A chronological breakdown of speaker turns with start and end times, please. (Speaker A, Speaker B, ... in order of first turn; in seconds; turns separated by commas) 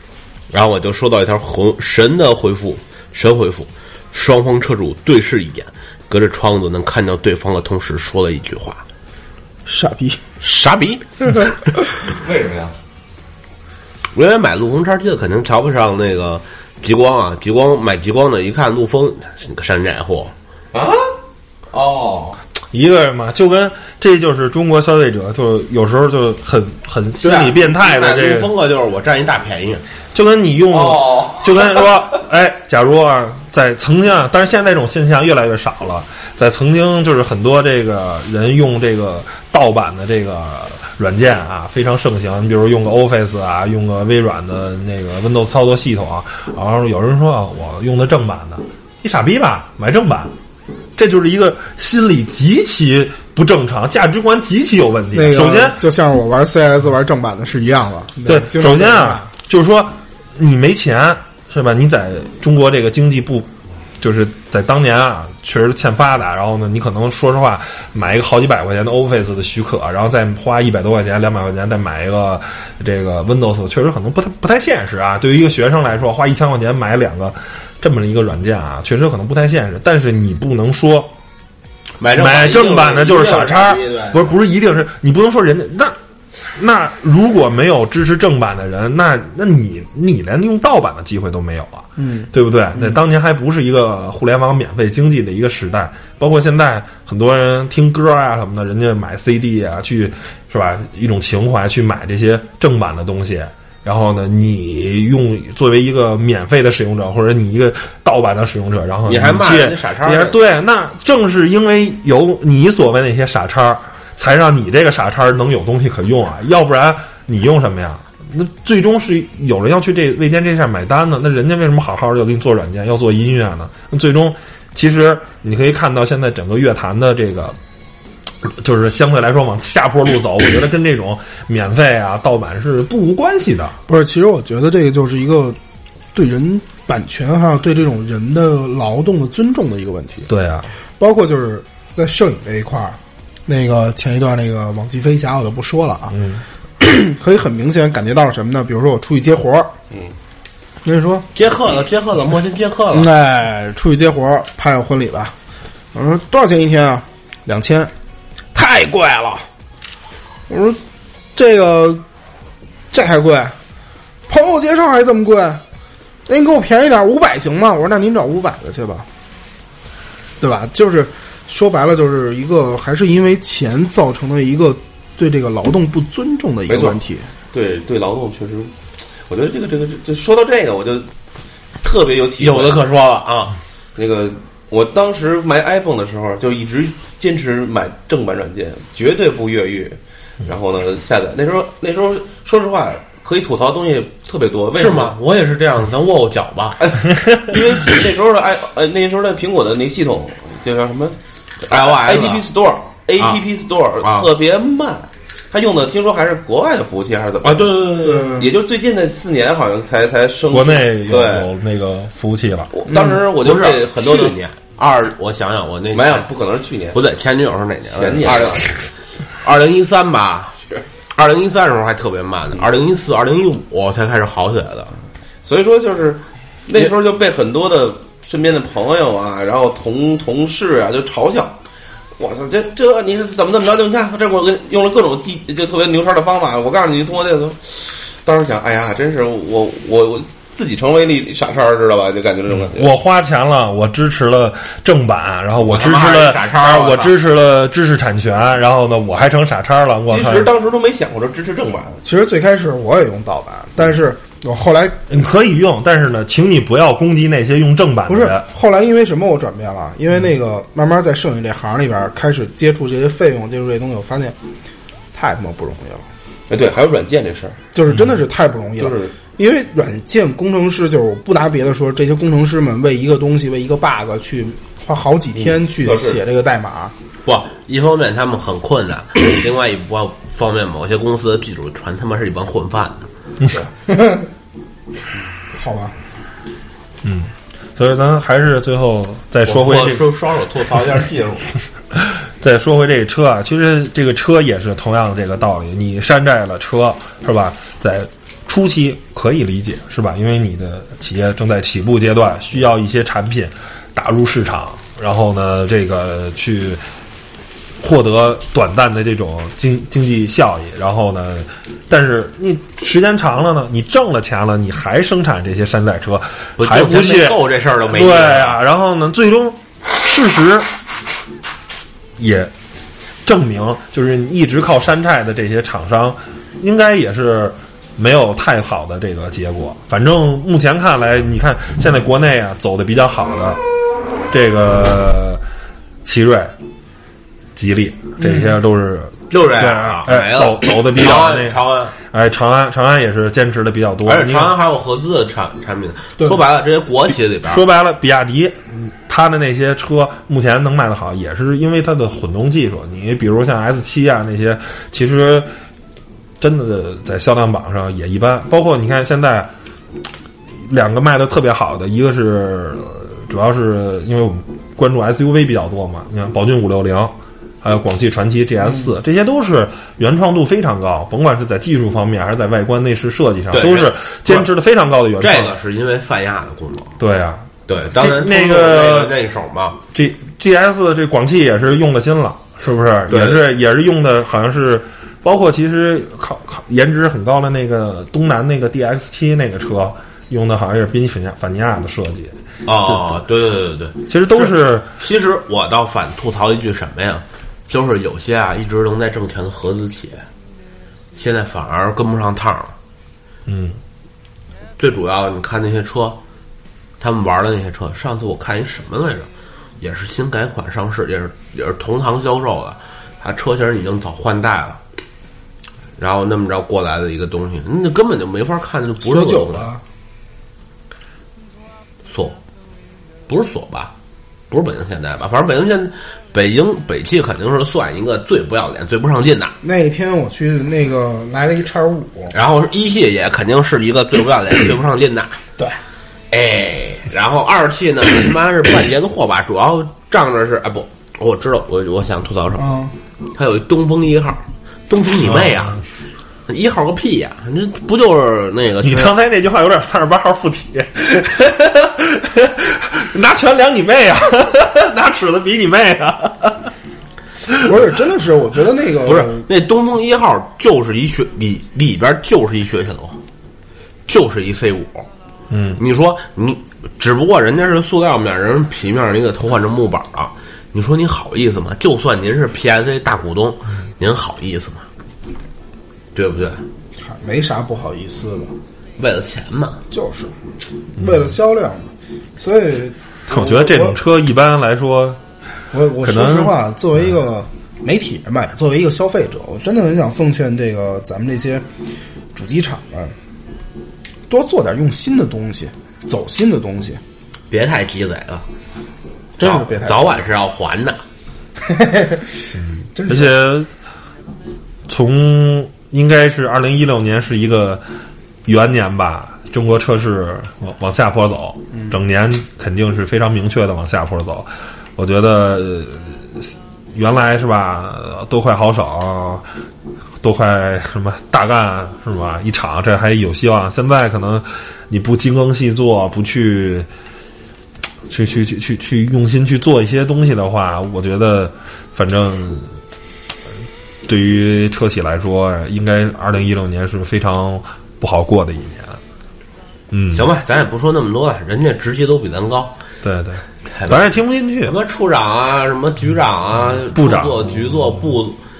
Speaker A: 0.5-8.8, Speaker B: 9.7-10.2, Speaker A: 10.4-11.0, Speaker C: 12.0-12.7, Speaker A: 14.1-20.3, Speaker C: 20.7-21.0, Speaker C: 21.7-22.4, Speaker D: 22.7-28.5, Speaker A: 27.2-29.8, Speaker D: 30.1-50.3, Speaker C: 30.7-32.0, Speaker D: 51.0-55.8, Speaker B: 55.1-59.3, Speaker D: 58.2-81.1, Speaker A: 82.0-84.3, Speaker D: 82.1-86.0, Speaker D: 86.5-127.6, Speaker B: 92.0-92.3, Speaker A: 109.0-110.4, Speaker D: 128.4-133.8, Speaker B: 133.9-135.6, Speaker B: 136.1-140.3, Speaker D: 140.3-140.7, Speaker B: 141.0-146.2, Speaker D: 146.1-146.4, Speaker B: 146.8-149.7, Speaker B: 150.8-151.3, Speaker A: 151.3-153.1, Speaker B: 152.9-155.3, Speaker B: 155.9-157.9, Speaker B: 158.5-159.4, Speaker B: 160.5-160.8, Speaker B: 161.3-162.0, Speaker B: 162.9-163.6, Speaker B: 164.3-165.6, Speaker B: 166.2-169.1, Speaker B: 170.4-177.3, Speaker C: 176.7-177.0, Speaker C: 177.5-178.7, Speaker C: 179.3-181.1, Speaker C: 181.8-182.8, Speaker A: 182.4-183.6, Speaker C: 183.9-195.1, Speaker A: 194.7-196.9, Speaker C: 196.8-211.5, Speaker A: 201.7-202.4, Speaker A: 204.0-204.3, Speaker A: 207.4-208.1, Speaker B: 208.0-208.5, Speaker D: 210.5-212.7, Speaker C: 212.7-214.3, Speaker B: 212.9-213.2, Speaker A: 212.9-216.3, Speaker C: 215.9-217.0, Speaker A: 216.9-218.8, Speaker C: 217.9-218.7, Speaker A: 219.4-220.6, Speaker A: 221.1-224.9, Speaker C: 225.4-231.6, Speaker C: 232.2-242.9, Speaker D: 242.5-250.5, Speaker A: 245.6-247.1, Speaker C: 250.1-252.0, Speaker B: 252.0-255.0, Speaker D: 255.1-258.4, Speaker B: 258.1-264.4, Speaker B: 265.1-266.1, Speaker C: 266.5-267.6, Speaker B: 267.7-276.9, Speaker D: 267.9-268.2, Speaker C: 268.8-269.1, Speaker C: 275.4-276.2, Speaker A: 277.2-283.1, Speaker B: 283.5-284.3, Speaker B: 285.5-285.9, Speaker D: 287.0-290.1, Speaker A: 289.4-291.5, Speaker D: 291.9-306.8, Speaker D: 307.8-320.7, Speaker A: 316.6-318.6, Speaker D: 322.2-322.5, Speaker D: 323.2-333.6, Speaker D: 334.3-335.4, Speaker D: 336.0-336.5, Speaker D: 337.6-344.6, Speaker A: 339.3-341.9, Speaker A: 344.0-347.6, Speaker D: 347.5-355.5, Speaker D: 356.4-359.5, Speaker D: 360.6-375.5, Speaker A: 373.5-374.5, Speaker A: 375.2-376.9, Speaker D: 377.0-379.1, Speaker A: 377.7-379.8, Speaker D: 379.9-392.3, Speaker A: 383.1-383.4, Speaker A: 392.6-400.3, Speaker D: 392.9-393.1, Speaker D: 394.1-394.9, Speaker A: 401.1-402.7, Speaker D: 403.5-403.8, Speaker A: 404.8-406.2, Speaker A: 407.0-414.8, Speaker A: 416.0-419.7, Speaker B: 419.0-419.8, Speaker A: 422.0-422.4, Speaker A: 423.3-423.9, Speaker A: 424.5-429.6, Speaker B: 429.6-432.3, Speaker A: 432.3-435.4, Speaker A: 436.3-442.7, Speaker B: 442.6-442.9, Speaker A: 443.3-445.8, Speaker D: 445.2-445.6, Speaker A: 446.5-449.1, Speaker D: 448.8-456.7, Speaker B: 457.6-459.4, Speaker A: 459.0-463.2, Speaker A: 464.1-465.1, Speaker D: 465.5-465.8, Speaker A: 465.8-474.9, Speaker A: 476.1-476.6, Speaker B: 477.0-478.5, Speaker A: 479.0-479.8, Speaker B: 479.9-480.3, Speaker B: 480.9-484.0, Speaker D: 481.0-481.3, Speaker D: 483.3-485.2, Speaker B: 485.7-491.6, Speaker D: 486.0-486.6, Speaker B: 492.3-493.1, Speaker B: 494.3-497.0, Speaker A: 497.5-498.5, Speaker B: 499.4-500.2, Speaker A: 499.4-501.0, Speaker B: 501.6-502.4, Speaker D: 502.6-503.7, Speaker B: 502.9-503.3, Speaker D: 504.9-507.8, Speaker D: 508.4-519.4, Speaker D: 520.2-526.9, Speaker D: 528.1-532.7, Speaker D: 534.0-539.0, Speaker D: 539.9-540.3, Speaker A: 540.1-542.8, Speaker D: 543.0-544.7, Speaker A: 543.7-544.1, Speaker A: 544.6-548.4, Speaker D: 546.9-547.6